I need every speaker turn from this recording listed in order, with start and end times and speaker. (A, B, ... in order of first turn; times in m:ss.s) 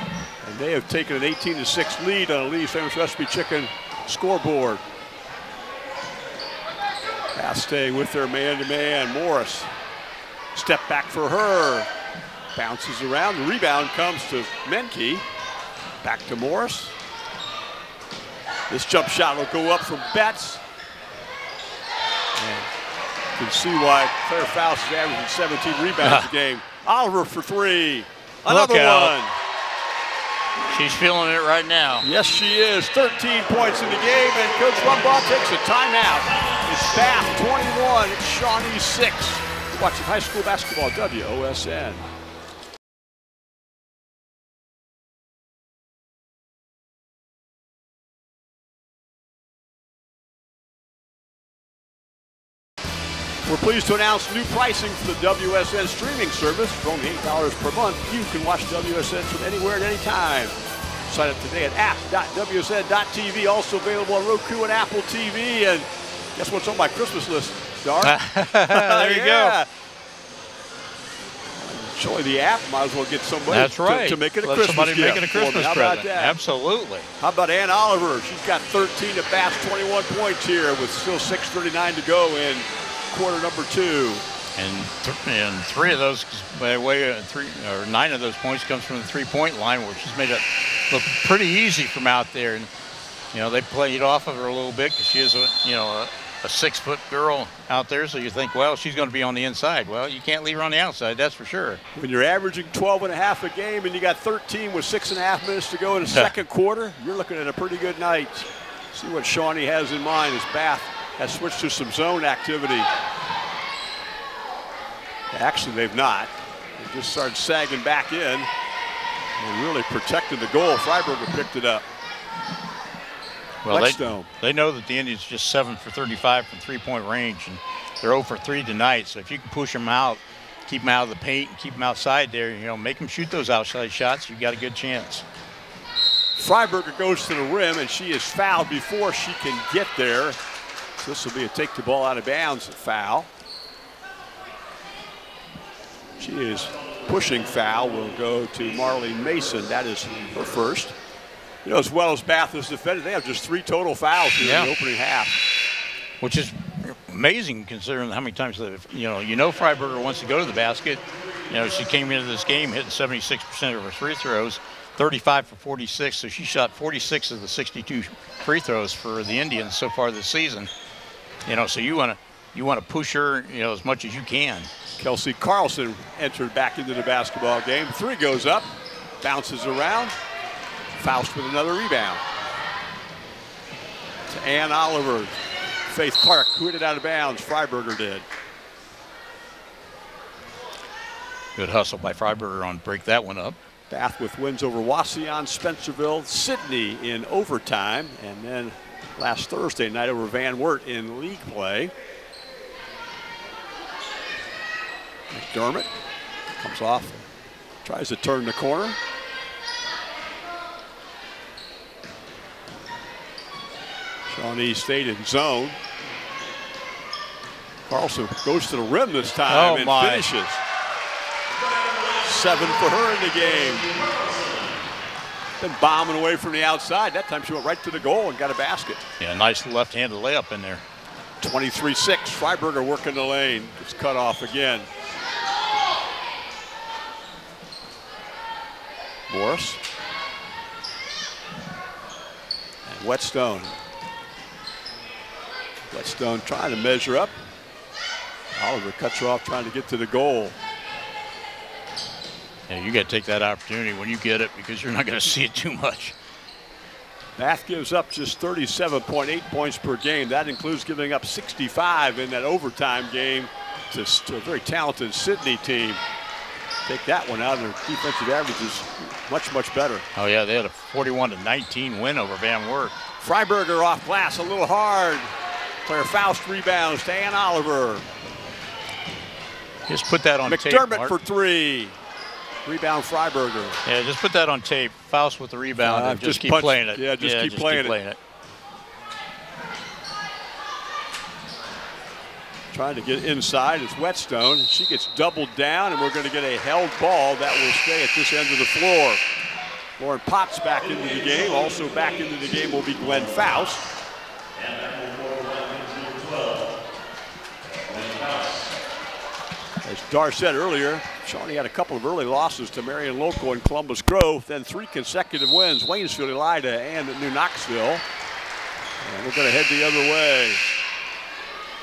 0:00.4-0:04.8 A
0:07.4-0:09.7 A
0:10.5-0:11.9 A
0:12.5-0:15.2 A
0:16.0-0:16.9 A
0:18.7-0:20.6 A
0:22.4-0:22.7 A
0:23.4-0:29.4 A
0:26.0-0:26.3 B
0:28.4-0:29.2 B
0:30.7-0:32.1 B
0:32.0-0:42.0 A
0:53.4-1:00.5 A
1:01.1-1:09.7 A
1:08.0-1:09.6 B
1:11.6-1:16.4 A
1:13.5-1:17.1 B
1:17.2-1:24.2 A
1:24.6-1:32.7 B
1:33.3-1:41.8 B
1:41.9-1:52.9 A
1:55.3-1:58.5 A
1:59.4-2:01.8 A
2:03.6-2:15.2 B
2:03.7-2:04.3 A
2:16.4-2:20.4 A
2:21.0-2:23.3 A
2:26.2-2:30.9 A
2:31.6-2:35.4 A
2:34.4-2:34.7 B
2:36.2-2:50.7 B
2:51.4-2:54.7 B
2:55.0-2:58.7 A
2:59.2-3:00.1 A
3:01.0-3:02.2 A
3:04.3-3:05.3 A
3:05.9-3:08.2 A
3:11.6-3:13.6 B
3:13.9-3:21.9 A
3:25.3-3:25.9 A
3:26.6-3:27.2 A
3:27.8-3:29.0 A
3:34.3-3:35.8 A
3:37.9-3:40.6 A
3:39.5-3:40.3 B
3:42.2-3:43.9 A
3:45.6-3:49.0 A
3:49.2-3:50.8 B
3:51.4-3:54.9 A
3:59.3-3:59.8 A
4:02.9-4:03.7 A
4:05.9-4:07.3 A
4:08.6-4:10.6 A
4:12.7-4:16.1 B
4:17.4-4:26.0 A
4:26.9-4:30.0 A
4:30.1-4:33.0 B
4:33.2-4:35.3 A
4:35.8-4:38.1 A
4:39.9-4:41.1 B
4:40.5-4:42.0 A
4:42.6-4:43.8 A
4:43.8-4:48.2 B
4:45.8-4:48.0 A
4:52.7-4:59.2 A
5:00.0-5:03.8 A
5:07.9-5:08.6 B
5:09.8-5:18.0 A
5:19.0-5:20.6 A